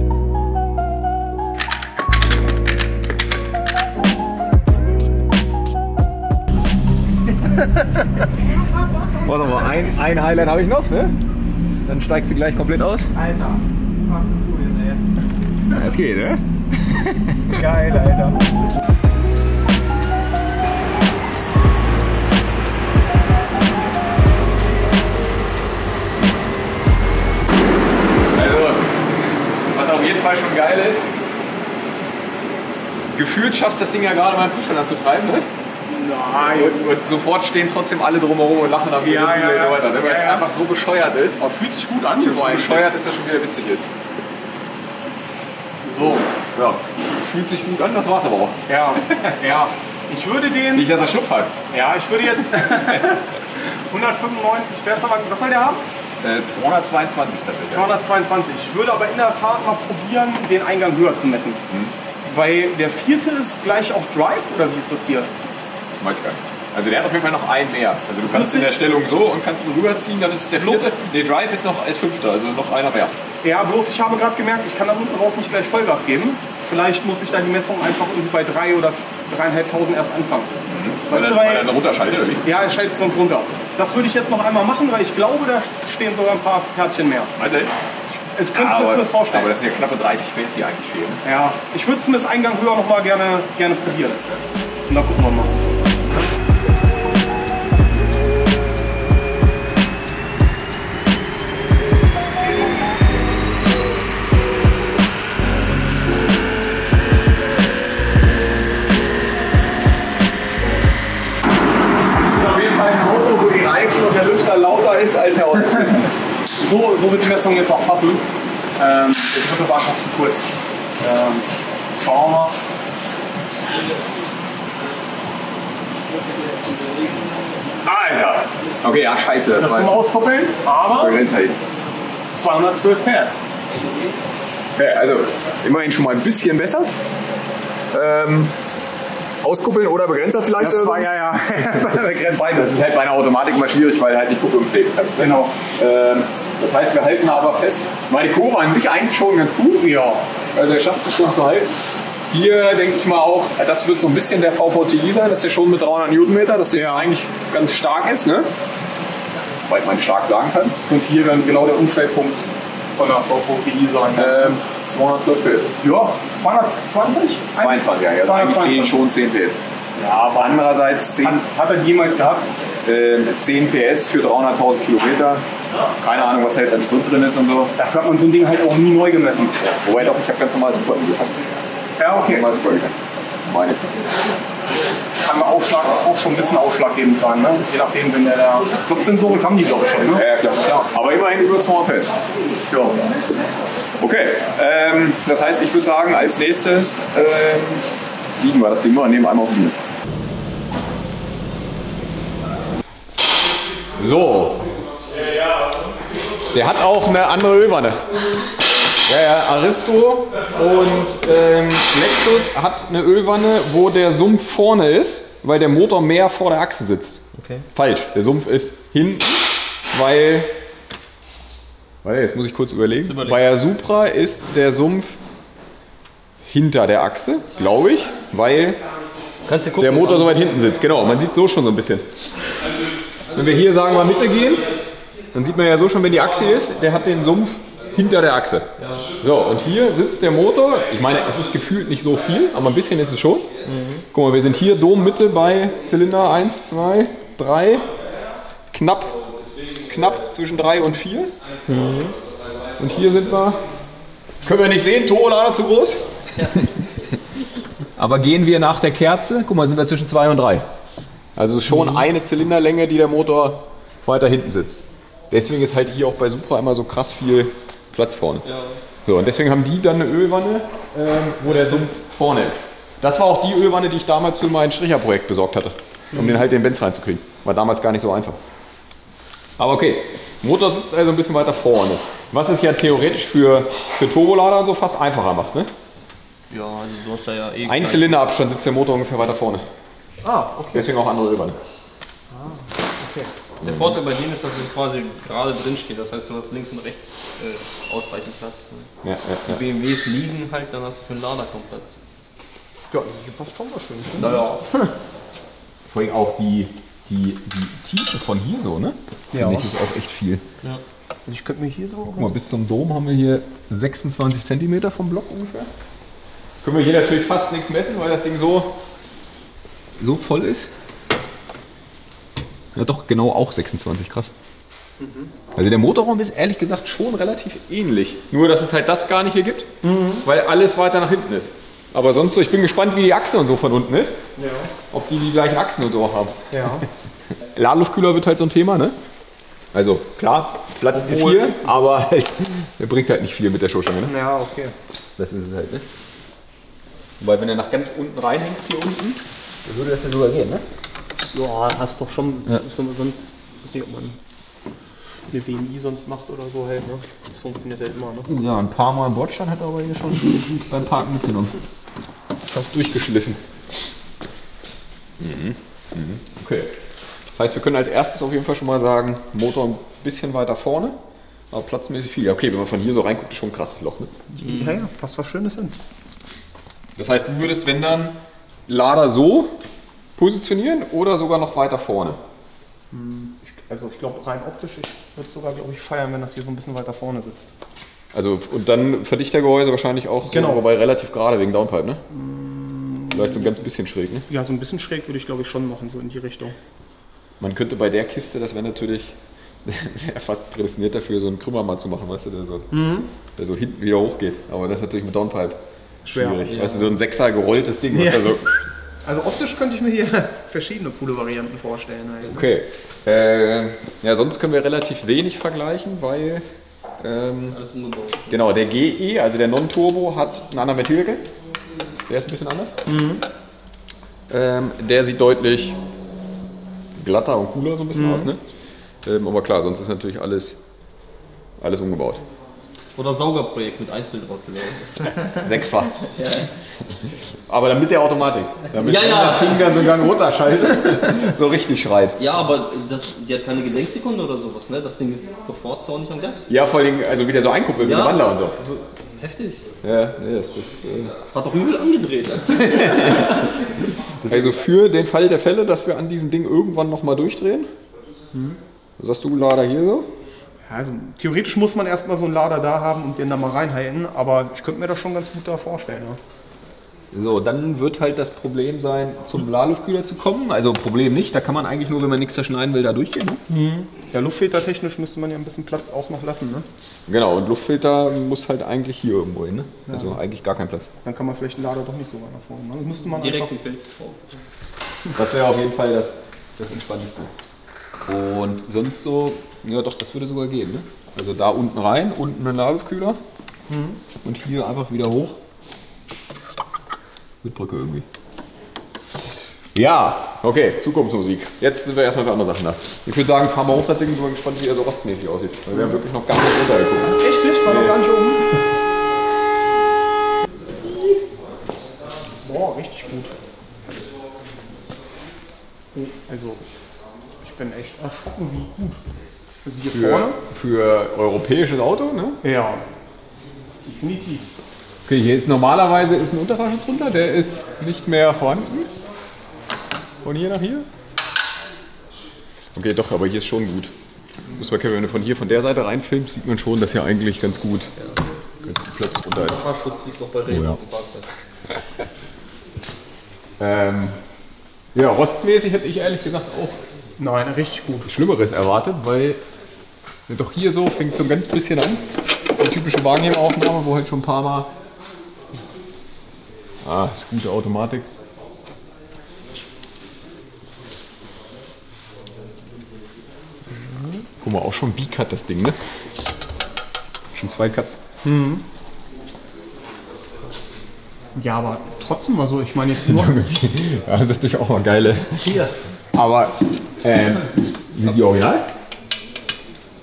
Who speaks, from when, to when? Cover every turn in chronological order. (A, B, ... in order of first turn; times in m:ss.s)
0:09.2-0:11.2 A
0:11.8-0:13.1 A
0:13.2-0:15.0 B
0:15.7-0:17.6 A
0:17.5-0:18.5 B
0:28.3-0:31.1 A
0:33.1-0:35.5 A
0:35.9-0:36.9 B
0:36.5-0:41.4 A
0:39.0-0:40.5 B
0:41.4-0:42.9 B
0:42.2-0:43.9 A
0:45.8-0:46.3 B
0:46.5-0:48.6 A
0:48.7-0:50.9 B
0:50.7-0:51.5 A
0:51.7-0:53.3 B
0:53.9-0:55.8 B
0:56.2-0:58.0 A
0:57.7-1:01.6 B
1:02.2-1:05.3 B
1:06.0-1:13.2 A
1:08.2-1:08.7 B
1:10.6-1:10.9 B
1:13.4-1:20.6 B
1:20.7-1:22.4 A
1:21.1-1:21.7 B
1:22.4-1:27.4 B
1:27.4-1:27.7 A
1:28.4-1:29.5 B
1:28.5-1:31.2 A
1:31.2-1:34.2 B
1:34.9-1:35.7 B
1:52.2-1:56.1 A
1:56.6-1:58.2 B
1:58.8-2:00.5 B
2:01.0-2:02.6 B
2:07.8-2:10.1 A
2:09.6-2:11.2 B
2:10.9-2:11.6 A
2:12.3-2:13.4 B
2:14.8-2:16.9 A
2:17.9-2:18.6 A
2:19.4-2:22.0 A
2:20.6-2:22.8 B
2:22.5-2:29.9 A
2:25.2-2:25.6 B
2:29.8-2:30.2 B
2:30.5-2:31.8 A
2:32.3-2:38.5 A
2:36.7-2:37.1 B
2:39.6-2:40.9 A
2:40.9-2:42.4 B
2:43.0-2:44.6 B
2:44.2-2:45.8 A
2:45.8-2:49.0 B
2:47.6-2:49.6 A
2:50.0-2:50.6 B
2:50.4-2:51.4 A
2:51.2-2:52.5 B
2:52.8-2:55.4 A
2:56.0-2:57.7 A
2:57.8-2:59.8 B
2:59.8-3:01.4 A
3:02.0-3:02.5 B
3:02.2-3:04.0 A
3:05.2-3:10.3 B
3:10.1-3:12.2 A
3:12.6-3:13.2 B
3:14.0-3:19.8 A
3:23.9-3:24.7 A
3:25.1-3:25.6 B
3:26.5-3:28.1 A
3:29.0-3:37.2 A
3:37.4-3:37.7 C
3:37.8-3:40.6 A
3:42.0-3:45.2 A
3:43.0-3:43.4 C
3:46.5-3:48.8 A
3:49.4-3:50.7 C
3:49.8-3:52.1 A
3:53.3-3:54.7 A
3:55.3-4:03.5 A
3:58.8-3:59.2 C
4:03.6-4:04.0 C
4:04.1-4:07.9 A
4:08.7-4:11.3 A
4:11.6-4:12.8 C
4:12.8-4:13.6 A
4:14.4-4:16.7 A
4:18.0-4:20.6 A
4:21.4-4:28.4 A
4:28.4-4:28.8 C
4:29.0-4:38.4 A
4:31.5-4:31.9 C
4:36.1-4:36.4 B
4:39.6-4:45.7 A
4:46.5-4:48.2 C
4:47.7-4:49.7 A
4:50.2-4:50.9 B
4:50.7-4:51.6 A
4:52.3-4:53.3 B
4:53.6-4:58.9 C
4:53.6-4:54.0 A
4:59.0-4:59.6 A
4:59.5-5:02.0 C
5:02.9-5:04.9 B
5:04.2-5:04.6 C
5:05.9-5:10.4 A
5:09.3-5:09.7 B
5:11.3-5:12.4 B
5:12.2-5:15.7 A
5:16.6-5:18.8 A
5:20.0-5:20.7 A
5:22.8-5:24.3 A
5:25.0-5:25.3 B
5:25.6-5:29.7 A
5:29.8-5:30.3 B
5:30.2-5:34.2 A
5:34.4-5:34.7 B
5:34.9-5:36.8 A
5:36.5-5:36.8 B
5:37.4-5:39.0 A
5:39.7-5:44.1 A
5:40.9-5:41.6 B
5:44.0-5:44.8 B
5:45.2-5:45.8 A
5:47.2-5:50.6 A
5:51.3-5:54.2 B
5:55.3-5:58.3 B
5:58.3-6:01.5 A
6:02.5-6:03.4 A
6:05.2-6:06.7 A
6:07.3-6:11.0 A
6:11.5-6:14.1 A
6:14.3-6:15.8 B
6:14.4-6:14.8 C
6:17.0-6:19.6 A
6:20.2-6:22.2 A
6:22.9-6:27.5 B
6:28.1-6:32.0 A
6:30.3-6:30.6 B
6:32.1-6:33.5 B
6:33.1-6:34.3 A
6:34.3-6:36.6 B
6:37.4-6:42.7 A
6:42.7-6:43.1 B
6:43.4-6:48.7 A
6:46.0-6:46.4 B
6:46.5-6:46.9 C
6:47.9-6:48.3 B
6:49.0-6:52.5 B
6:52.3-6:56.4 A
6:57.0-6:57.6 A
6:57.4-6:58.4 C
6:58.3-7:01.3 A
7:02.1-7:02.8 A
7:02.9-7:03.2 B
7:04.3-7:05.8 A
7:07.0-7:08.4 A
7:07.9-7:08.3 B
7:09.0-7:10.6 A
7:11.6-7:12.2 A
7:13.0-7:15.5 C
7:15.4-7:16.1 A
7:16.1-7:16.5 C
7:17.5-7:22.2 A
7:18.8-7:20.0 C
7:22.2-7:26.5 C
7:26.5-7:28.6 A
7:27.8-7:29.6 C
7:29.8-7:31.2 A
7:31.2-7:34.6 C
7:32.6-7:33.4 A
7:34.3-7:37.7 A
7:38.3-7:38.6 B
7:39.0-7:40.1 A
7:40.7-7:46.2 B
7:47.1-7:53.4 A
7:53.5-7:56.7 B
7:57.1-8:00.9 A
7:59.9-8:00.2 B
8:01.0-8:03.5 B
8:03.1-8:04.3 C
8:05.2-8:07.3 A
8:08.1-8:13.2 A
8:13.7-8:14.0 B
8:14.2-8:15.4 A
8:17.4-8:18.1 A
8:19.8-8:27.9 A
8:27.0-8:28.6 B
8:30.8-8:31.2 A
8:32.4-8:33.3 B
8:35.9-8:36.6 B
8:37.4-8:39.0 B
8:39.6-8:40.4 B
8:39.9-8:42.4 A
8:42.4-8:42.8 B
8:43.8-8:44.5 B
8:45.1-8:48.9 A
8:50.2-8:50.9 A
8:52.8-8:53.9 A
8:54.5-8:57.9 A
8:58.6-8:59.6 A
8:59.3-9:01.4 C
9:00.5-9:00.8 A
9:03.6-9:04.2 A
9:04.9-9:06.8 A
9:07.2-9:08.1 B
9:08.0-9:09.4 A
9:10.3-9:12.1 A
9:12.6-9:14.7 A
9:16.8-9:18.1 A
9:23.9-9:24.2 B
9:24.4-9:25.8 A
9:27.3-9:28.0 A
9:28.2-9:28.6 B
9:31.4-9:33.4 B
9:33.1-9:35.6 A
9:35.4-9:35.7 C
9:36.1-9:38.7 A